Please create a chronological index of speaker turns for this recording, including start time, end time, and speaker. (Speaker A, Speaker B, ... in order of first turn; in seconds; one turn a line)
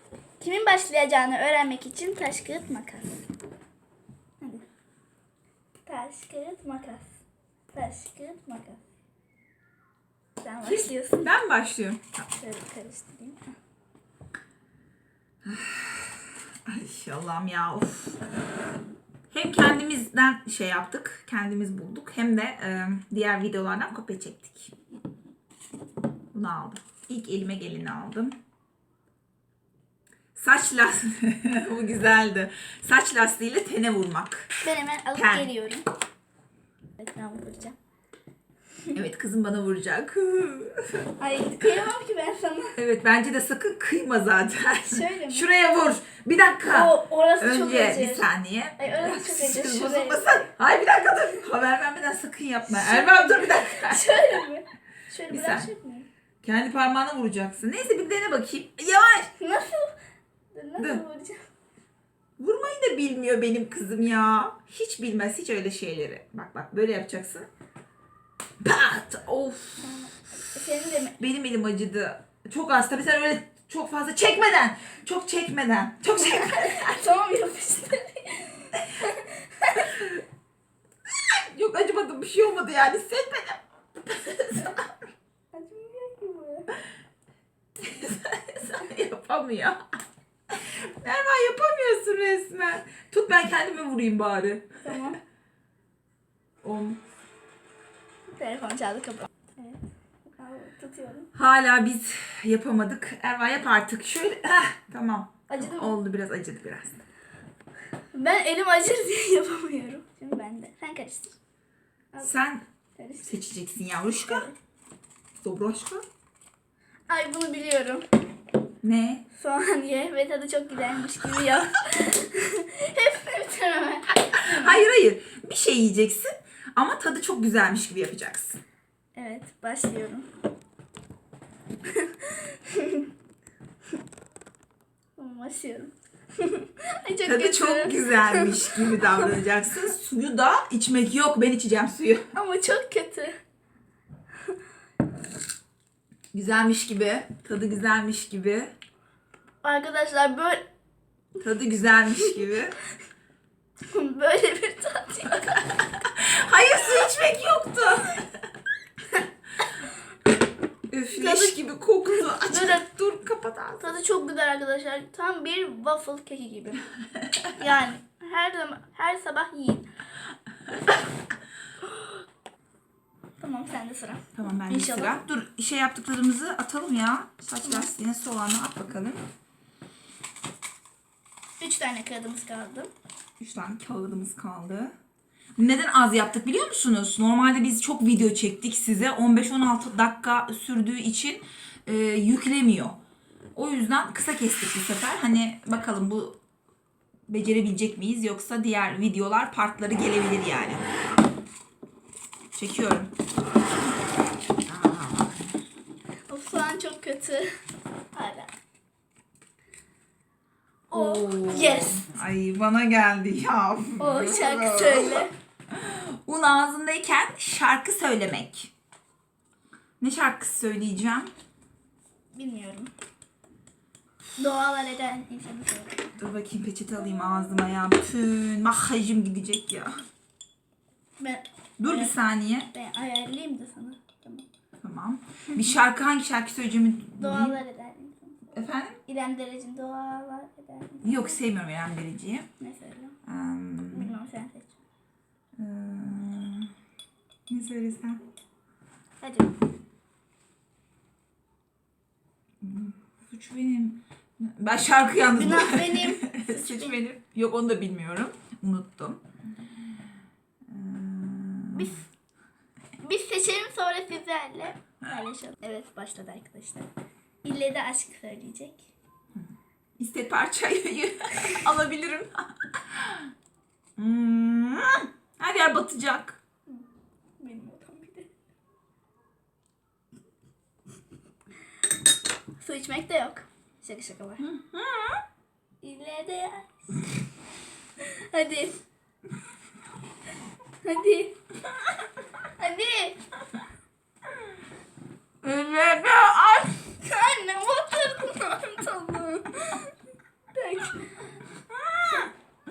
Speaker A: 0.4-3.2
Speaker A: 4.4-4.7
Speaker A: 5.8-7.2
Speaker A: 7.7-8.8
Speaker A: 10.4-11.3
Speaker B: 10.6-12.2
Speaker A: 12.3-13.5
Speaker B: 15.4-18.2
Speaker B: 19.3-24.7
Speaker B: 26.3-28.4
Speaker B: 30.4-34.5
Speaker A: 34.6-35.9
Speaker B: 35.1-35.5
Speaker A: 37.0-37.8
Speaker B: 38.9-41.1
Speaker A: 41.2-42.8
Speaker B: 42.8-54.5
Speaker A: 44.9-45.5
Speaker A: 46.6-48.3
Speaker A: 48.8-50.5
Speaker A: 52.6-56.1
Speaker B: 55.3-55.7
Speaker B: 56.4-59.3
Speaker A: 59.4-60.0
Speaker A: 60.5-61.4
Speaker B: 60.8-61.0
Speaker B: 62.4-67.5
Speaker B: 68.6-70.0
Speaker A: 69.8-71.2
Speaker B: 71.2-77.1
Speaker A: 76.2-80.0
Speaker B: 79.8-80.2
Speaker B: 81.1-85.0
Speaker A: 85.5-86.8
Speaker B: 87.8-89.8
Speaker B: 90.5-95.1
Speaker A: 94.8-95.2
Speaker B: 96.6-97.0
Speaker A: 98.3-101.3
Speaker B: 101.3-107.0
Speaker A: 105.5-106.0
Speaker A: 108.1-111.4
Speaker B: 112.2-112.7
Speaker A: 113.0-113.4
Speaker B: 113.2-114.5
Speaker B: 115.4-116.0
Speaker A: 117.1-118.1
Speaker B: 118.8-119.2
Speaker A: 119.3-124.8
Speaker B: 124.3-128.6
Speaker A: 129.2-130.3
Speaker A: 131.9-133.1
Speaker A: 135.2-139.3
Speaker B: 137.2-142.3
Speaker A: 142.3-143.4
Speaker B: 146.3-148.7
Speaker A: 149.6-150.7
Speaker B: 151.4-152.8
Speaker A: 153.8-155.7
Speaker B: 155.8-158.4
Speaker B: 160.9-164.0
Speaker A: 161.1-161.6
Speaker A: 162.2-162.8
Speaker A: 163.8-166.9
Speaker A: 167.5-169.9
Speaker A: 171.8-172.2
Speaker A: 173.4-175.2
Speaker B: 174.3-179.2
Speaker A: 181.6-182.9
Speaker B: 183.4-184.9
Speaker B: 185.6-193.0
Speaker B: 193.6-196.4
Speaker B: 197.3-200.9
Speaker B: 202.6-203.1
Speaker B: 204.7-205.3
Speaker A: 206.3-207.5
Speaker A: 208.1-208.5
Speaker B: 210.9-218.7
Speaker A: 210.9-212.1
Speaker A: 214.0-215.3
Speaker B: 220.0-221.3
Speaker A: 222.3-222.9
Speaker A: 224.4-226.1
Speaker B: 226.2-229.9
Speaker A: 231.2-232.2
Speaker B: 231.8-232.7
Speaker A: 232.7-234.5
Speaker B: 234.8-237.6
Speaker A: 237.2-238.5
Speaker B: 238.5-239.0
Speaker A: 239.1-241.4
Speaker B: 241.0-242.5
Speaker A: 242.6-243.2
Speaker B: 243.2-244.1
Speaker A: 243.9-244.8
Speaker B: 245.6-246.7
Speaker B: 247.5-248.2
Speaker A: 249.2-249.5
Speaker B: 252.6-259.2
Speaker A: 255.3-257.0
Speaker B: 260.7-261.9
Speaker A: 261.7-262.1
Speaker A: 263.0-266.9
Speaker A: 267.4-268.9
Speaker B: 269.3-273.3
Speaker B: 274.0-276.4
Speaker A: 277.4-278.3
Speaker A: 282.6-284.5
Speaker B: 284.4-285.2
Speaker A: 285.8-287.1
Speaker A: 288.0-288.8
Speaker A: 290.8-291.4
Speaker A: 292.6-293.2
Speaker B: 295.4-296.8
Speaker A: 297.0-299.9
Speaker A: 300.5-301.3
Speaker B: 301.7-302.3